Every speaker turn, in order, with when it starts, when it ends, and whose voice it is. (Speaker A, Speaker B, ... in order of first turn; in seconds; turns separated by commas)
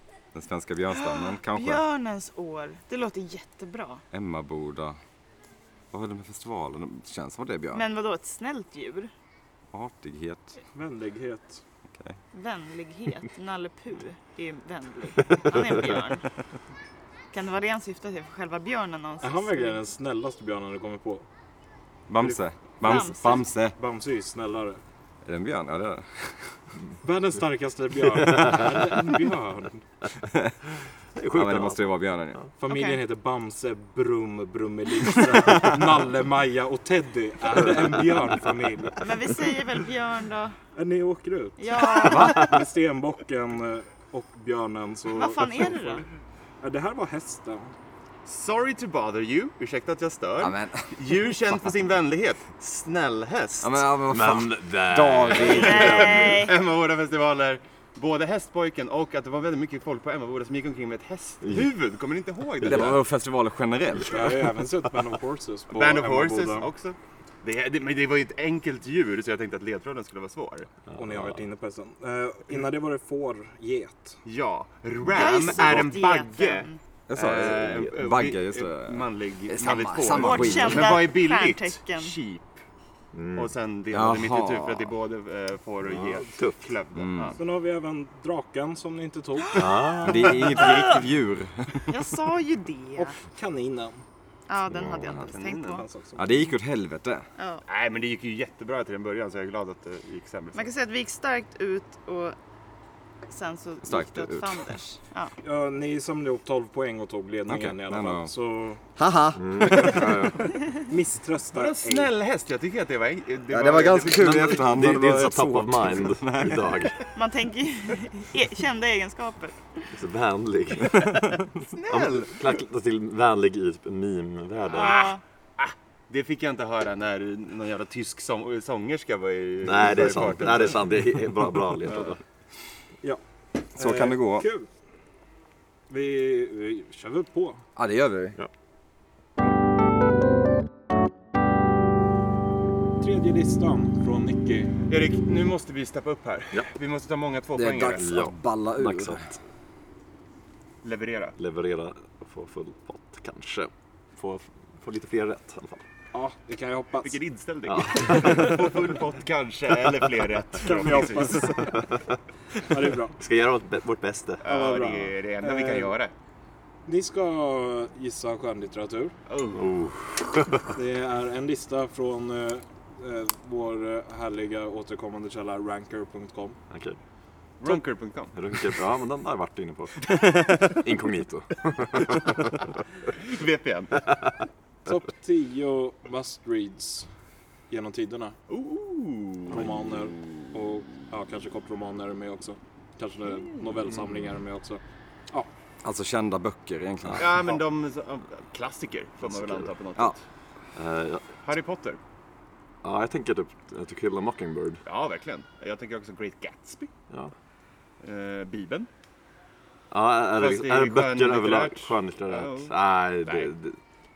Speaker A: 0.3-1.8, Speaker B: 1.0-4.0, Speaker A: 4.1-5.0, Speaker A: 5.9-7.8, Speaker B: 7.7-9.1, Speaker A: 9.7-10.6, Speaker C: 10.7-11.6, Speaker B: 12.3-16.3, Speaker B: 17.3-19.8, Speaker C: 19.2-21.2, Speaker A: 22.1-23.8, Speaker C: 22.2-23.1, Speaker B: 22.8-23.5, Speaker C: 23.8-24.8, Speaker A: 25.2-26.5, Speaker C: 27.0-29.8, Speaker D: 31.1-31.9, Speaker A: 31.3-32.4, Speaker C: 32.6-39.0, Speaker B: 32.7-33.0, Speaker B: 39.0-40.6, Speaker C: 40.8-46.0, Speaker B: 41.6-42.6, Speaker B: 45.2-46.0, Speaker C: 46.6-47.7, Speaker E: 48.3-53.8, Speaker A: 50.4-50.9, Speaker A: 53.6-56.1, Speaker D: 54.1-56.4, Speaker E: 55.3-63.0, Speaker B: 55.5-56.5, Speaker D: 61.4-61.7, Speaker D: 62.6-63.0, Speaker A: 62.6-64.4, Speaker C: 64.1-66.7, Speaker E: 65.7-70.7, Speaker D: 70.9-71.4, Speaker C: 71.0-74.2, Speaker E: 74.3-82.6, Speaker B: 75.1-76.8, Speaker D: 75.2-75.9, Speaker A: 77.1-81.0, Speaker B: 80.0-82.1, Speaker D: 83.1-83.5, Speaker E: 83.3-87.4, Speaker A: 83.9-84.9, Speaker D: 85.8-86.7, Speaker A: 87.0-87.4, Speaker C: 87.4-89.9, Speaker D: 89.5-90.5, Speaker A: 90.0-91.9, Speaker B: 90.2-91.0, Speaker B: 91.9-93.1, Speaker C: 93.0-94.0, Speaker B: 94.5-95.8, Speaker D: 94.7-95.2, Speaker A: 94.9-95.2, Speaker E: 95.2-95.8, Speaker C: 95.7-96.3, Speaker A: 96.2-97.3, Speaker B: 97.4-97.6, Speaker E: 97.7-100.7, Speaker B: 100.5-102.4, Speaker B: 103.3-105.3, Speaker A: 103.8-104.7, Speaker C: 105.4-108.8, Speaker A: 107.5-108.3, Speaker A: 109.0-110.5, Speaker D: 109.4-110.1, Speaker C: 110.9-112.1, Speaker E: 111.5-114.7, Speaker A: 113.5-116.8, Speaker D: 114.2-117.0, Speaker B: 117.1-119.7, Speaker D: 119.9-121.2, Speaker D: 121.9-125.1, Speaker E: 124.7-131.0, Speaker B: 124.7-125.2, Speaker D: 129.6-132.2, Speaker A: 133.8-134.5, Speaker C: 133.8-134.7, Speaker C: 135.9-137.6, Speaker A: 137.8-138.4, Speaker C: 143.0-144.7, Speaker E: 144.9-148.3, Speaker A: 147.6-149.3, Speaker D: 147.9-149.2, Speaker E: 150.8-151.4, Speaker D: 151.4-155.8, Speaker C: 156.1-157.2, Speaker E: 157.0-161.7, Speaker D: 157.7-158.8, Speaker C: 160.6-161.9, Speaker D: 161.7-162.2, Speaker C: 162.6-163.2, Speaker D: 163.2-164.4, Speaker E: 164.4-166.1, Speaker C: 164.4-165.9, Speaker C: 166.9-169.2, Speaker E: 169.3-169.6, Speaker D: 169.5-170.7, Speaker C: 170.7-176.6, Speaker D: 176.7-177.0, Speaker E: 177.6-178.4, Speaker D: 178.3-180.1, Speaker D: 180.7-182.6, Speaker E: 183.1-184.0, Speaker C: 184.9-187.1, Speaker C: 187.7-188.4, Speaker E: 188.5-189.6, Speaker C: 189.5-195.5, Speaker D: 189.5-189.8, Speaker A: 195.8-197.4, Speaker E: 197.2-200.2, Speaker D: 199.2-199.7, Speaker D: 200.8-201.3, Speaker E: 201.4-202.0, Speaker D: 202.8-204.8, Speaker E: 204.8-206.9, Speaker E: 208.0-208.9, Speaker D: 209.9-213.8, Speaker E: 210.4-213.5